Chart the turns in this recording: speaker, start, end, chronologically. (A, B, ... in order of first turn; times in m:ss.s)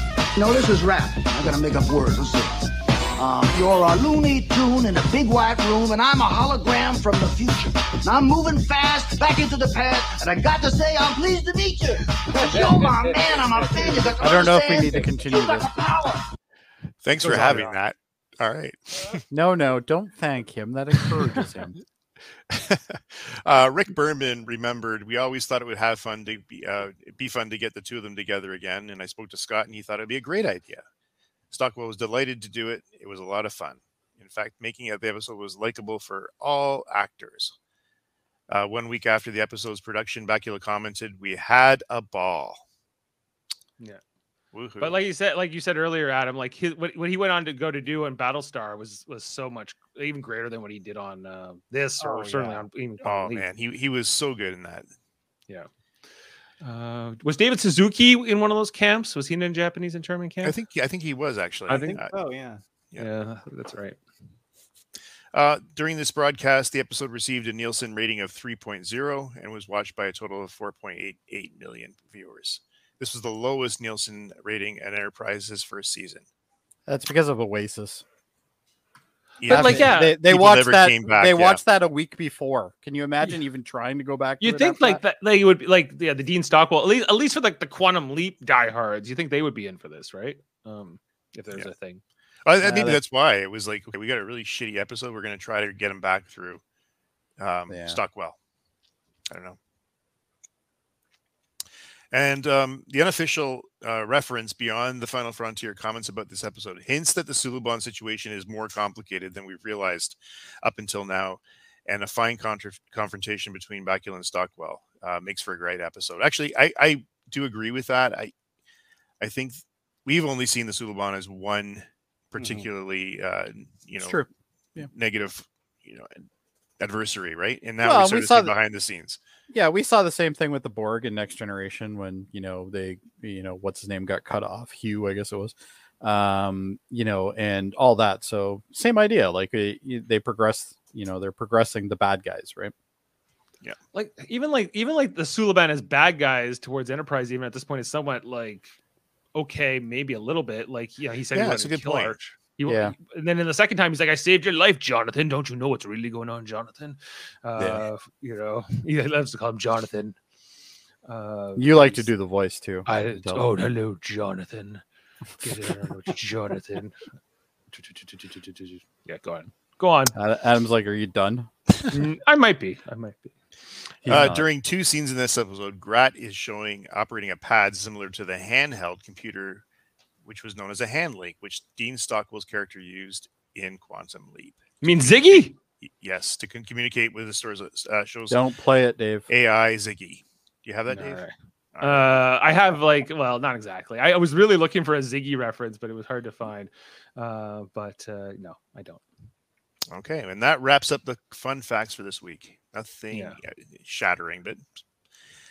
0:00.4-0:02.6 A
0:03.2-0:16.2 A
0:12.5-0:12.8 B
0:14.2-0:15.7 C
0:17.0-0:19.2 D
0:17.2-0:17.8 E
0:19.3-0:21.8 C
0:22.5-0:30.8 D
0:31.5-0:37.6 D
0:38.5-0:42.6 D
0:44.5-0:45.0 D
0:44.8-0:53.5 E
0:52.0-0:52.6 B
0:53.0-0:54.9 D
0:56.6-1:00.6 E
1:00.4-1:02.1 D
1:01.7-1:02.0 E
1:01.8-1:02.6 B
1:03.0-1:04.0 E
1:05.3-1:16.2 D
1:16.9-1:18.0 C
1:19.4-1:21.6 D
1:19.4-1:20.2 E
1:19.5-1:25.0 C
1:24.4-1:32.0 E
1:32.4-1:36.6 D
1:32.6-1:33.0 C
1:37.4-1:38.4 D
1:37.7-1:38.0 C
1:39.3-1:39.6 D
1:42.1-1:58.3 D
1:59.2-2:04.2 D
2:02.4-2:02.7 B
2:04.0-2:04.9 C
2:04.9-2:06.2 D
2:06.8-2:09.2 D
2:07.8-2:08.5 C
2:09.5-2:22.7 C
2:23.9-2:28.7 E
2:29.3-2:40.2 E
2:31.3-2:32.2 D
2:32.7-2:33.0 C
2:37.6-2:37.8 C
2:41.1-2:42.1 E
2:41.6-2:43.5 C
2:42.9-2:44.8 E
2:45.4-2:47.0 E
2:47.7-2:50.2 E
2:50.2-2:52.0 C
2:51.9-2:53.3 E
2:54.0-2:54.4 C
2:54.1-2:59.6 D
3:00.2-3:08.4 D
3:04.8-3:05.6 E
3:08.3-3:09.3 C
3:09.3-3:11.2 D
3:10.9-3:19.0 E
3:11.8-3:12.3 D
3:19.9-3:24.6 D
3:23.1-3:23.4 E